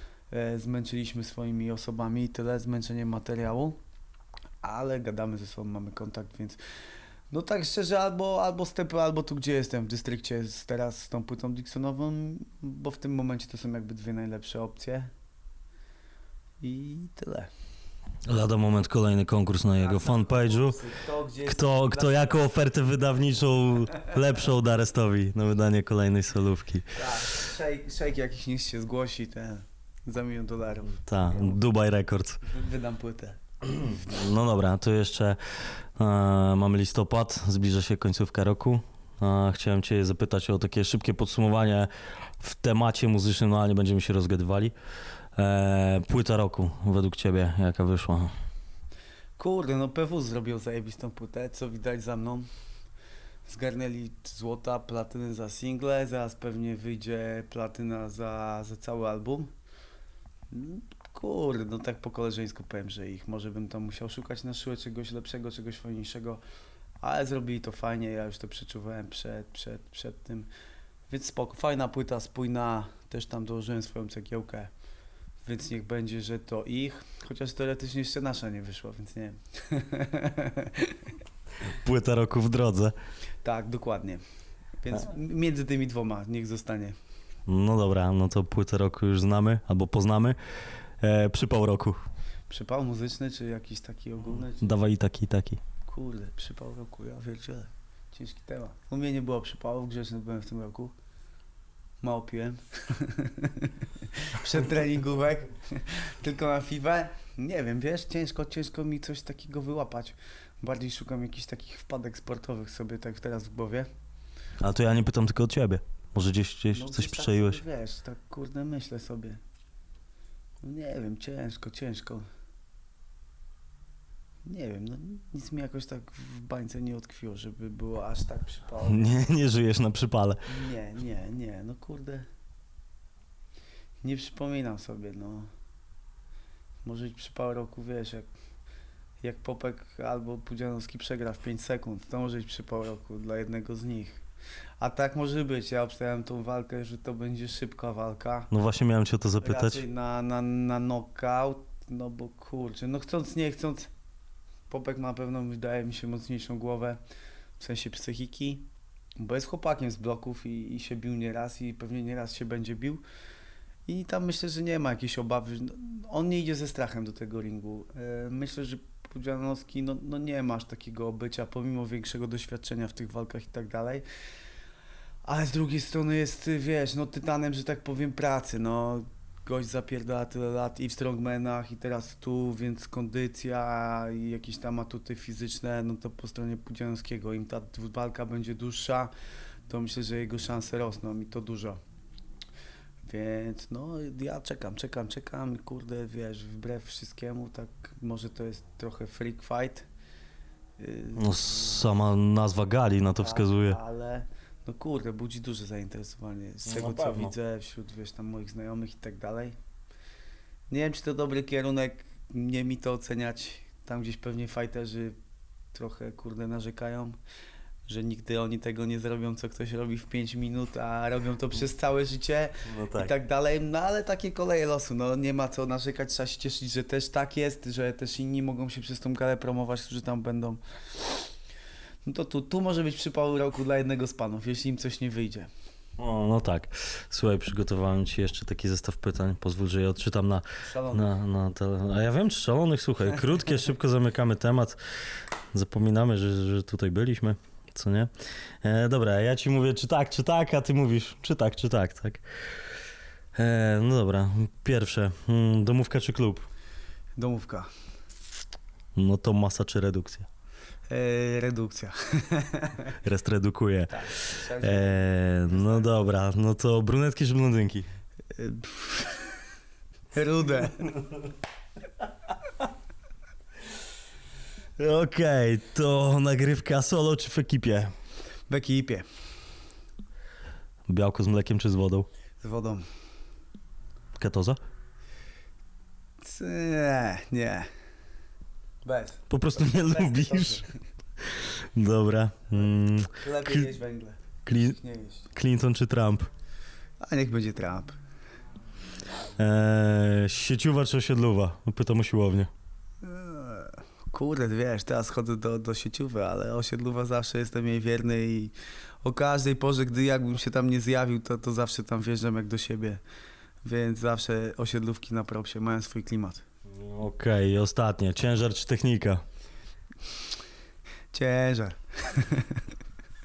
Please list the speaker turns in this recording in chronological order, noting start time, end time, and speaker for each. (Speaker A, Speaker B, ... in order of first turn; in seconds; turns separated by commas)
Speaker A: 0.3-3.8, Speaker A: 4.6-6.6, Speaker A: 7.3-15.1, Speaker A: 16.6-17.5, Speaker B: 18.3-20.8, Speaker A: 19.8-22.4, Speaker B: 21.4-27.2, Speaker A: 26.9-31.0, Speaker B: 31.0-32.4, Speaker A: 32.4-33.4, Speaker B: 33.7-44.7, Speaker B: 45.4-48.3, Speaker A: 49.4-52.5, Speaker A: 53.5-59.5, Speaker A: 60.5-66.4, Speaker A: 67.0-70.5, Speaker A: 71.1-74.7, Speaker A: 75.4-81.1, Speaker B: 81.6-82.9, Speaker A: 83.4-84.2, Speaker A: 84.8-86.9, Speaker B: 87.5-90.4, Speaker B: 91.0-92.0, Speaker A: 92.5-94.8, Speaker B: 94.6-95.6, Speaker A: 95.8-100.9, Speaker A: 102.0-113.9, Speaker B: 114.6-117.6, Speaker A: 116.7-119.4, Speaker A: 120.6-122.2, Speaker A: 124.5-129.2, Speaker B: 128.8-130.4, Speaker A: 130.4-132.2, Speaker A: 134.0-135.5, Speaker A: 136.8-138.3, Speaker A: 139.2-144.2, Speaker A: 144.8-148.5, Speaker B: 148.5-149.8, Speaker A: 149.4-153.9, Speaker A: 154.7-157.0, Speaker A: 157.6-158.7, Speaker A: 159.2-163.0, Speaker A: 163.9-174.0, Speaker A: 175.2-189.1, Speaker A: 189.7-191.8, Speaker A: 193.1-199.9, Speaker A: 200.8-201.8, Speaker B: 201.2-203.8, Speaker A: 203.2-209.6, Speaker B: 206.7-207.3, Speaker A: 210.7-215.2, Speaker A: 215.7-217.2, Speaker A: 217.9-231.3, Speaker B: 222.7-223.1, Speaker A: 232.1-235.5, Speaker B: 236.0-244.8, Speaker A: 240.6-241.2, Speaker B: 245.5-248.1, Speaker B: 248.6-252.2, Speaker B: 253.3-256.5, Speaker A: 257.2-257.7, Speaker B: 258.9-260.3, Speaker A: 260.9-262.9, Speaker B: 263.0-267.9, Speaker A: 263.9-265.9, Speaker A: 268.3-269.5, Speaker A: 270.1-271.0, Speaker B: 274.8-277.9, Speaker A: 278.5-279.1, Speaker B: 280.9-282.1, Speaker A: 282.4-282.8, Speaker B: 284.1-284.6, Speaker A: 286.2-287.7, Speaker A: 288.8-290.7, Speaker B: 289.3-290.6, Speaker B: 291.2-293.7, Speaker A: 292.6-295.3, Speaker B: 294.4-294.8, Speaker B: 295.3-296.3, Speaker A: 297.0-297.9, Speaker B: 299.4-302.5, Speaker A: 303.0-308.5, Speaker A: 309.0-313.0, Speaker A: 313.6-316.4, Speaker B: 316.7-319.2, Speaker A: 321.1-322.6